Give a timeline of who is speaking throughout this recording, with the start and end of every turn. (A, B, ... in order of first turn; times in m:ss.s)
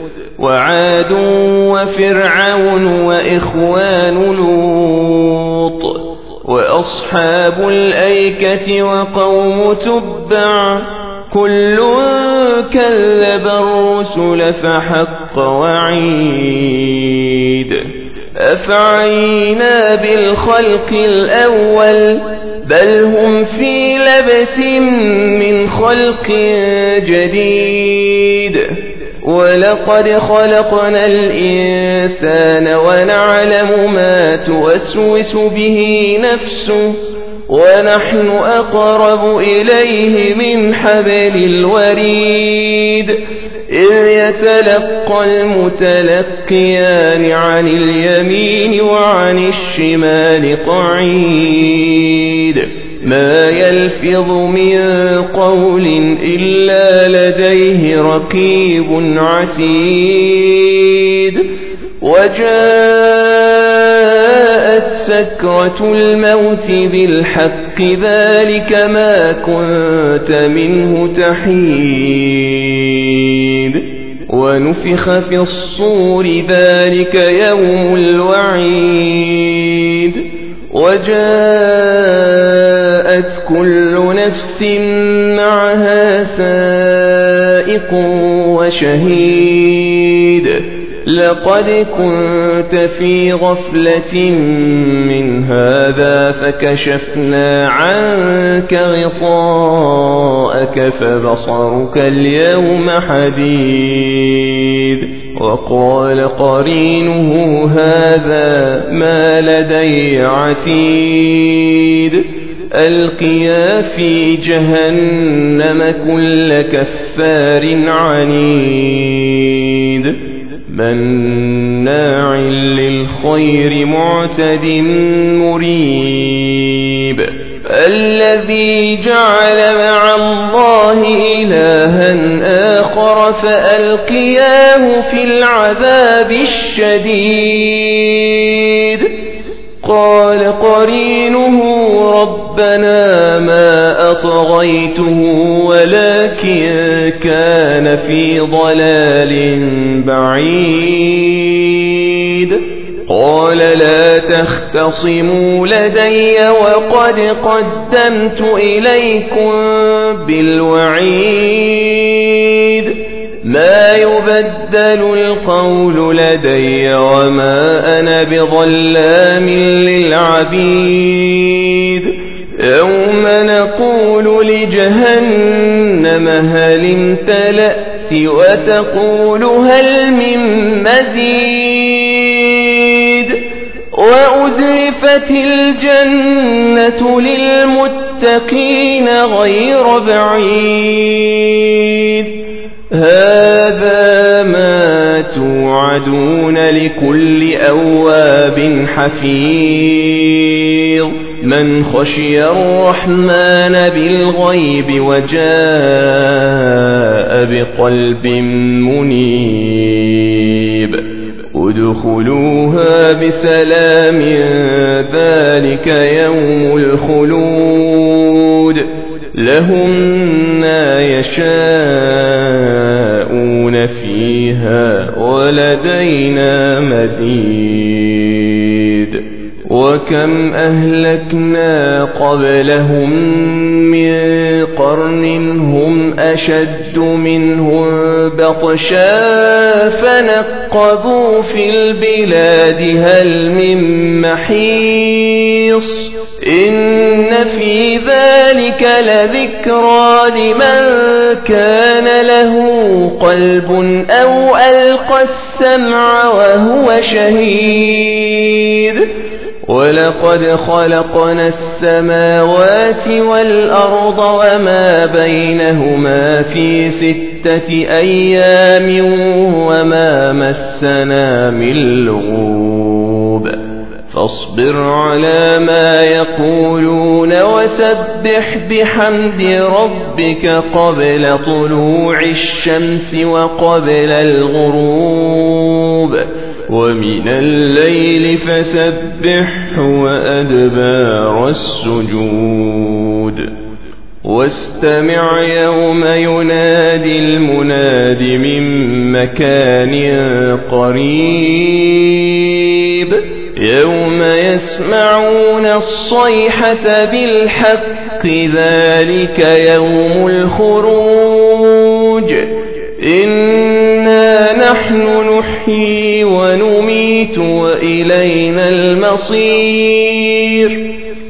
0:00.4-1:01.5 A
1:02.0-2:19.1 A
2:19.8-4:19.1 A
4:19.7-4:53.5 A
4:54.2-5:20.9 A